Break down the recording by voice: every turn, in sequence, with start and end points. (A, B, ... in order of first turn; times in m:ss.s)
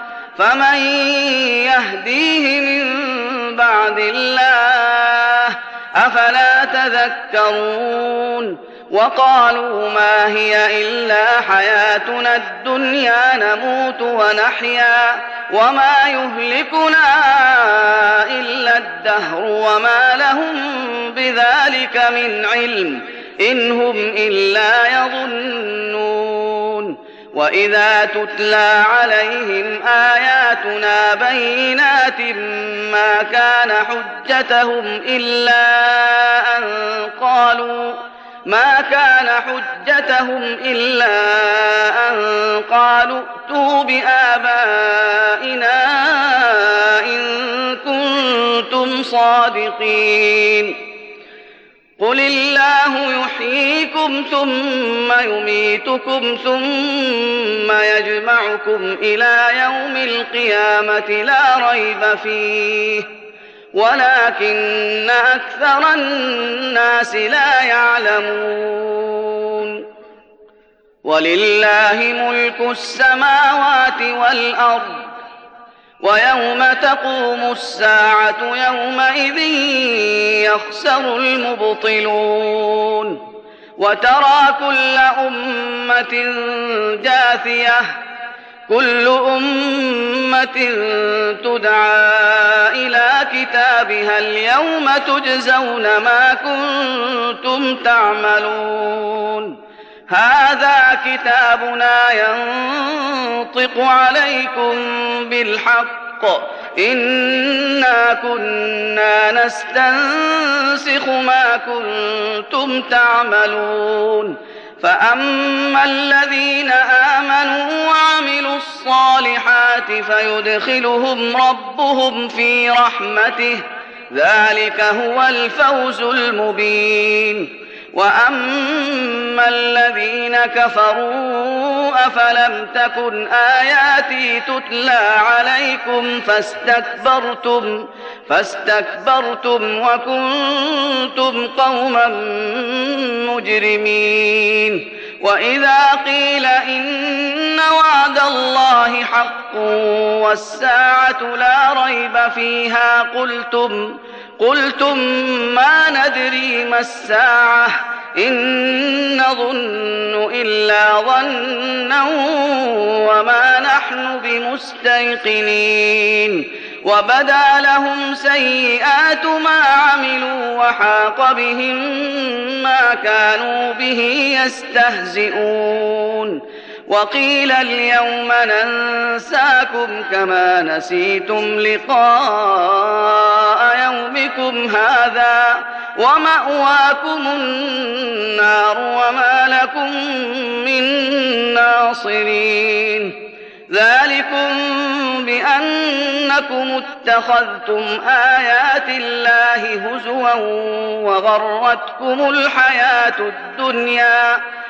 0:00.4-0:50.8 A
0:52.0-1:03.1 A
1:03.8-1:09.8 A
1:11.0-1:15.1 A
1:16.0-1:23.2 A
1:23.8-1:27.9 A
1:28.7-1:39.6 A
1:40.1-3:13.2 A
3:13.7-3:24.4 A